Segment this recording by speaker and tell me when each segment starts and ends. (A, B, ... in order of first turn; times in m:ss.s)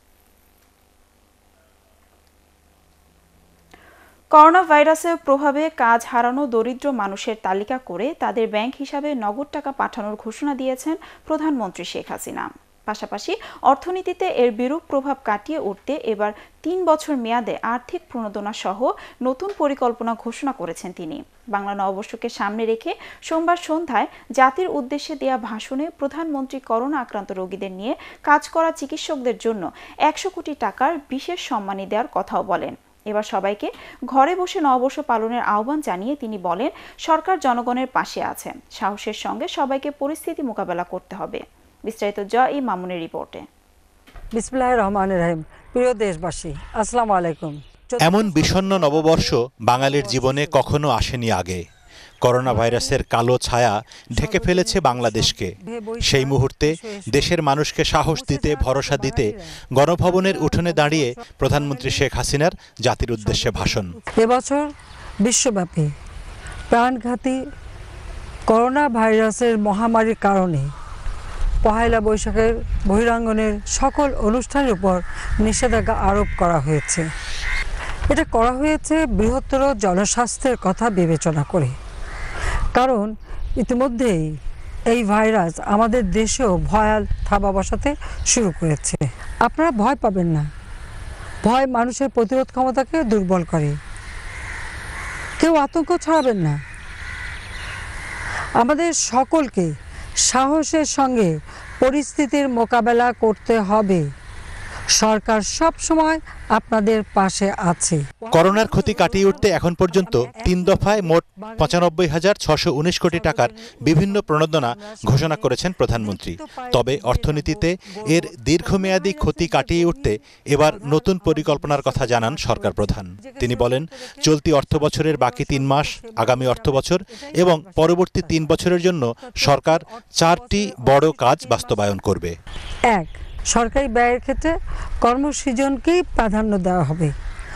0:04.3-0:43.4 A
0:44.3-0:50.7 B
0:48.0-0:51.6 C
0:52.2-0:55.5 C
0:52.5-0:53.0 B
0:54.2-0:57.3 B
0:56.0-1:03.9 C
0:58.1-1:02.1 B
1:03.2-1:04.7 B
1:05.2-1:05.9 B
1:06.7-1:07.4 B
1:08.5-1:10.7 B
1:11.6-1:17.0 B
1:18.1-1:21.7 B
1:22.7-1:24.3 B
1:24.9-1:30.5 B
1:31.4-1:33.8 B
1:35.4-1:36.6 B
1:38.6-1:39.7 B
1:40.3-1:44.0 B
1:45.0-1:51.9 B
1:48.3-2:12.3 C
1:53.1-2:11.9 B
2:12.9-2:17.1 B